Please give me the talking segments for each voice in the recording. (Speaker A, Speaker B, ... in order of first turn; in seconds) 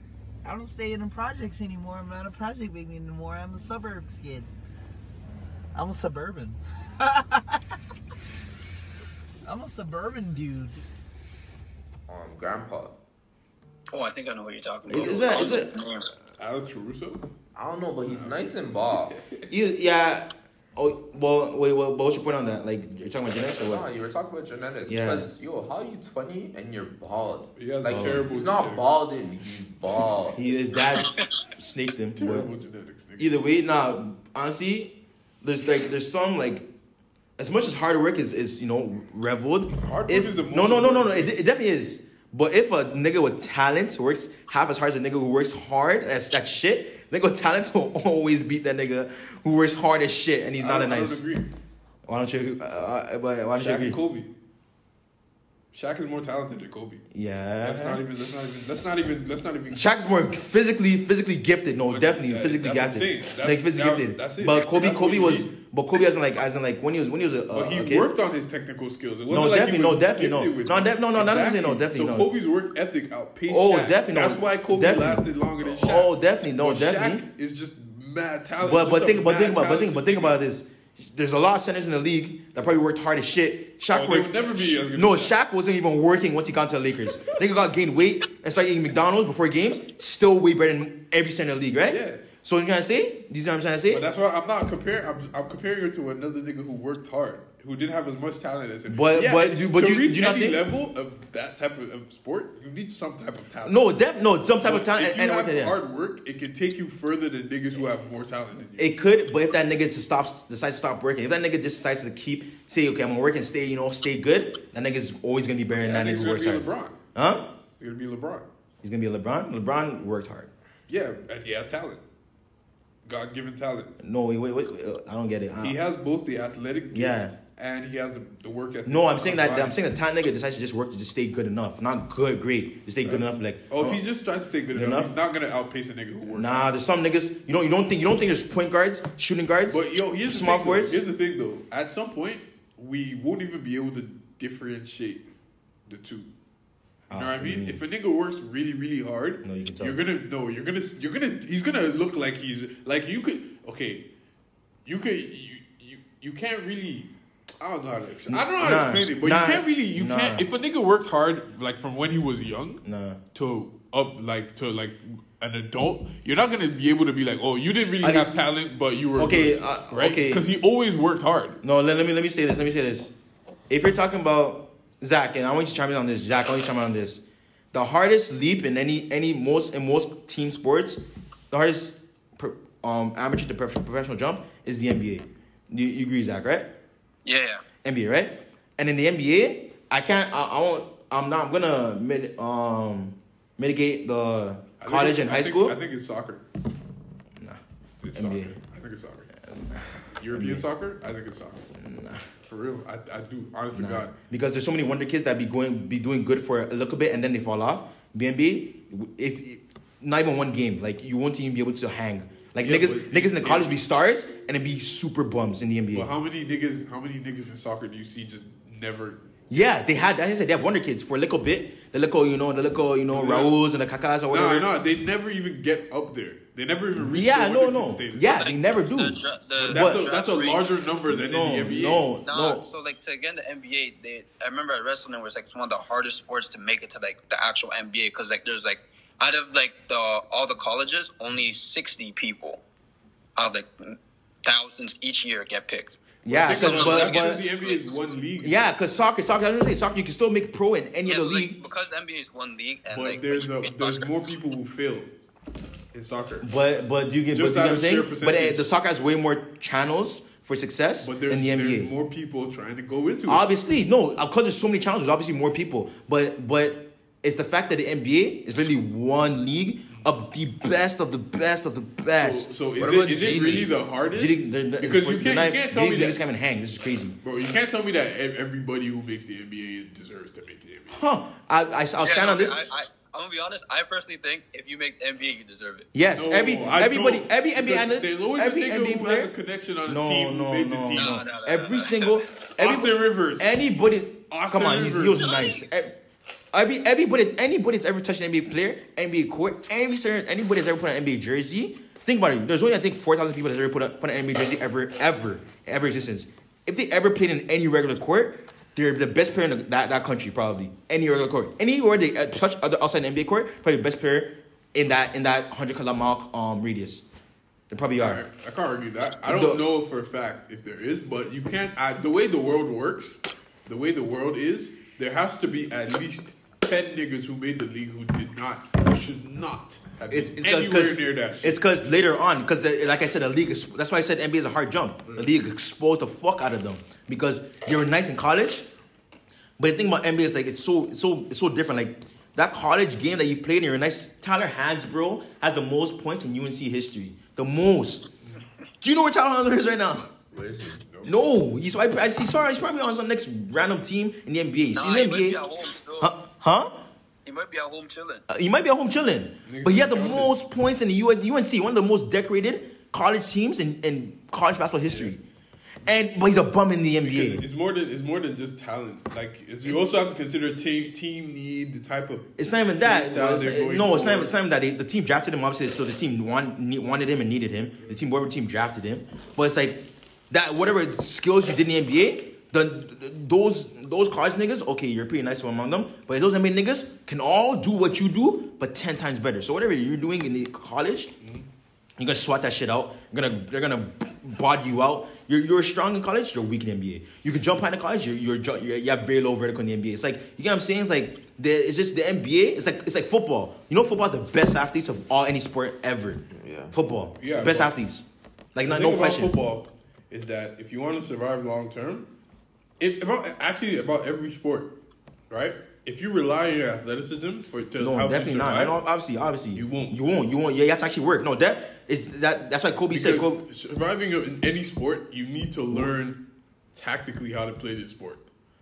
Speaker A: 0.4-4.5, 5.7-7.6, 9.4-10.8
Speaker B: 12.1-13.0, 17.5-19.2, 23.6-30.4, 272.8-273.7, 350.3-350.8, 406.3-406.7
Speaker C: 13.9-16.1, 31.0-31.3, 187.2-187.6, 228.3-230.7, 232.2-242.6, 243.3-247.9, 251.1-254.1, 282.0-285.9, 290.9-292.2, 354.7-356.1, 357.2-358.2
Speaker D: 14.9-15.7, 19.5-23.9, 24.9-25.3, 27.9-28.2, 30.3-32.5, 33.2-36.7, 37.4-51.2, 52.0-54.0, 57.1-58.0, 59.7-68.1, 69.3-72.3, 73.5-77.2, 78.6-94.0, 98.9-100.6, 103.6-105.8, 108.8-117.5, 118.8-120.5, 124.0-125.8, 126.9-127.3, 128.8-134.0, 134.7-135.1, 136.3-141.0, 147.1-147.8, 149.4-150.0, 158.3-160.5, 162.8-163.2, 168.0-168.3, 169.2-170.4, 171.6-173.1, 173.7-177.2, 177.7-186.7, 187.8-195.8, 198.1-198.6, 199.4-200.6, 201.8-202.2, 203.7-216.1, 219.5-224.7, 226.9-230.1, 231.1-232.6, 246.2-247.4, 248.4-251.6, 256.4-261.9, 263.3-272.5, 274.1-277.2, 280.9-282.6, 285.9-289.3, 289.9-296.0, 296.5-317.0, 317.7-318.2, 319.2-319.6, 330.1-338.7, 339.6-348.1, 348.8-350.1, 351.0-355.4, 356.0-356.8, 358.3-365.2, 365.8-367.4, 372.4-391.1, 392.0-409.3, 417.8-423.4
Speaker E: 14.9-15.6, 16.4-17.2, 18.1-19.4, 27.6-29.0, 32.1-33.4, 39.7-41.3, 50.6-51.5, 53.6-54.3, 55.7-57.0, 57.6-59.9, 61.9-65.5, 67.5-80.4, 83.9-85.3, 91.9-92.2, 93.9-103.9, 104.6-108.9, 115.7-117.0, 117.8-118.5, 120.9-122.0, 123.0-123.9, 125.6-129.8, 133.0-136.6, 139.7-145.3, 145.9-146.3, 147.1-154.0, 154.8-162.8, 163.3-171.6, 194.8-196.4, 198.0-199.3, 200.2-201.7, 202.4-204.1, 212.6-213.8, 215.9-219.2, 223.1-223.6, 224.3-228.4, 229.6-232.1, 246.2-248.7, 252.9-255.1, 255.9-256.5, 257.3-258.6, 261.0-263.4, 272.1-276.2, 277.2-281.0, 286.1-291.2, 292.6-293.6, 294.3-295.4, 317.9-331.6, 350.8-351.1, 359.4-360.3, 367.0-374.3, 391.2-391.5, 407.2-407.8, 408.6-412.1, 412.8-414.7, 415.3-418.8, 419.5-420.0, 422.9-426.2, 426.7-428.2